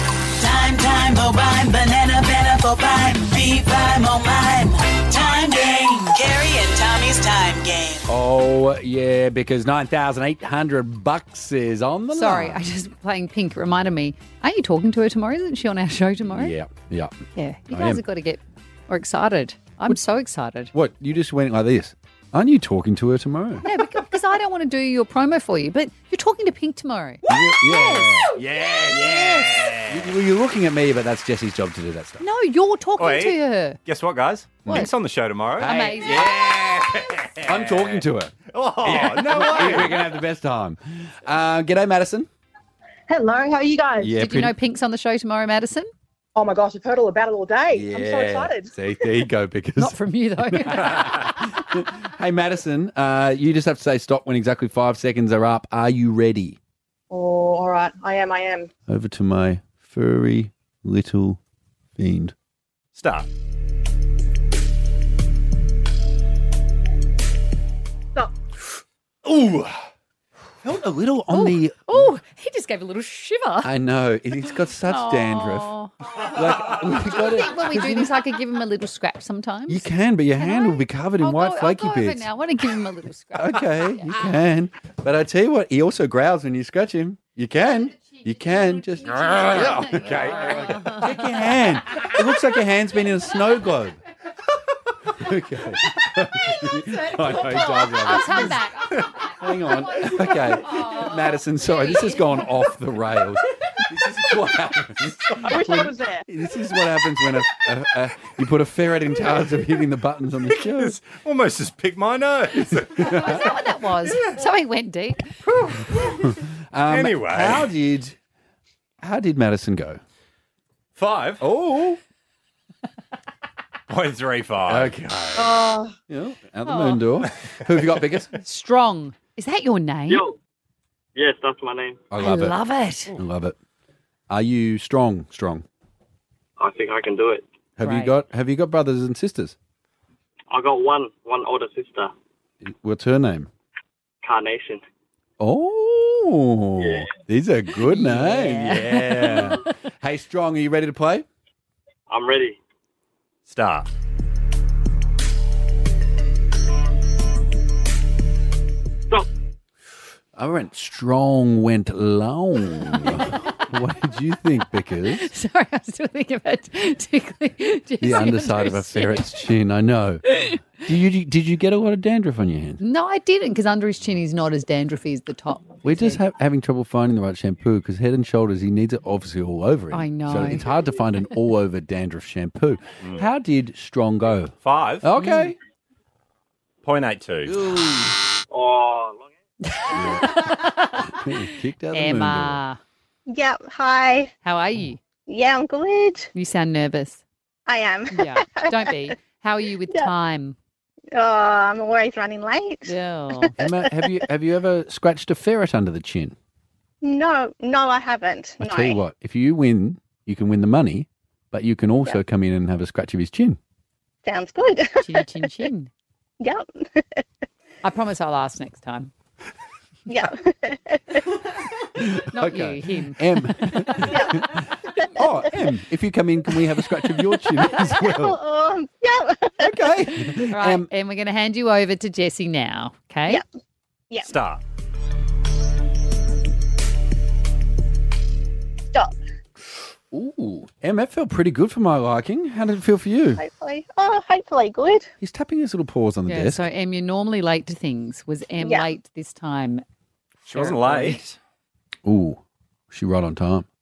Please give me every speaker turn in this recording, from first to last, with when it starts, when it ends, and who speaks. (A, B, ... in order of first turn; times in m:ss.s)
0:00.4-0:08.1 A
0:08.1-0:12.6 B
0:12.1-0:16.5 C
0:16.3-0:17.2 B
0:17.4-0:20.7 C
0:17.7-0:18.0 B
0:20.7-0:23.7 B
0:23.6-0:28.3 C
0:27.3-0:32.2 B
0:28.6-0:30.1 D
0:29.0-0:29.3 C
0:32.2-0:33.8 C
0:33.0-0:40.0 D
0:35.6-0:36.7 B
0:35.6-0:36.3 C
0:37.4-0:42.3 B
0:43.1-0:44.1 E
0:44.0-0:44.5 B
0:44.1-0:45.9 C
0:46.4-0:48.7 E
0:47.7-0:50.0 B
0:49.8-0:51.2 C
0:50.5-0:56.6 B
0:57.1-0:58.7 E
0:58.9-1:01.4 B
1:02.0-1:02.3 B
1:03.0-1:03.3 D
1:09.3-1:09.7 B
1:10.6-1:12.1 B
1:11.3-1:13.7 C
1:13.6-1:15.7 B
1:14.8-1:15.9 C
1:16.2-1:18.1 B
1:16.7-1:24.3 C
1:19.7-1:22.3 B
1:23.3-1:34.0 B
1:29.0-1:31.1 C
1:35.2-1:38.6 B
1:37.2-1:39.1 C
1:39.3-1:51.0 B
1:39.9-1:41.1 C
1:45.5-1:46.2 E
1:50.6-1:53.2 D
1:52.6-1:53.5 B
1:53.0-1:55.3 C
1:56.0-1:58.2 B
1:56.9-1:57.7 D
1:59.0-2:00.0 B
2:01.0-2:01.4 D
2:01.4-2:02.0 B
2:03.9-2:05.0 D
2:04.7-2:08.3 B
2:05.4-2:05.8 E
2:06.6-2:07.0 C
2:08.4-2:10.3 C
2:10.1-2:10.4 F
2:11.2-2:12.0 F
2:12.1-2:12.6 B
2:12.2-2:13.1 C
2:13.1-2:13.6 B
2:14.3-2:15.6 B
2:16.6-2:17.4 F
2:17.8-2:19.6 B
2:17.8-2:18.2 C
2:20.5-2:22.1 F
2:22.6-2:23.5 B
2:24.2-2:24.8 F
2:25.4-2:31.3 B
2:27.9-2:29.6 C
2:32.1-2:32.6 F
2:33.5-2:33.9 D
2:40.4-2:45.3 B
2:45.2-2:49.4 C
2:48.0-2:50.2 B
2:50.8-2:52.8 B
2:52.8-2:56.2 C
2:55.8-3:05.6 B
2:59.9-3:00.7 C
3:04.6-3:05.0 D
3:05.2-3:05.5 C
3:06.8-3:07.6 D
3:07.7-3:08.1 B
3:08.5-3:09.3 F
3:09.7-3:11.2 C
3:09.9-3:10.5 B
3:11.0-3:12.6 B
3:11.9-3:12.8 C
3:13.3-3:14.3 G
3:14.4-3:15.0 C
3:15.3-3:16.3 G
3:16.3-3:17.2 C
3:17.7-3:19.1 G
3:18.1-3:20.6 C
3:21.1-3:23.9 G
3:22.9-3:23.5 C
3:23.6-3:26.4 B
3:27.0-3:29.0 G
3:28.6-3:33.6 B
3:34.2-3:35.3 G
3:35.0-3:35.9 C
3:36.4-3:37.2 G
3:37.8-3:39.1 C
3:40.1-3:41.2 G
3:42.0-3:44.6 B
3:42.3-3:43.2 C
3:45.2-3:48.4 B
3:47.5-3:49.9 G
3:49.6-3:50.9 B
3:50.4-3:53.4 C
3:54.2-3:54.6 D
4:00.1-4:03.4 B
4:03.4-4:05.1 G
4:05.2-4:06.7 B
4:06.3-4:09.8 C
4:08.6-4:08.9 G
4:10.5-4:11.4 D
4:10.5-4:11.2 B
4:12.0-4:13.7 B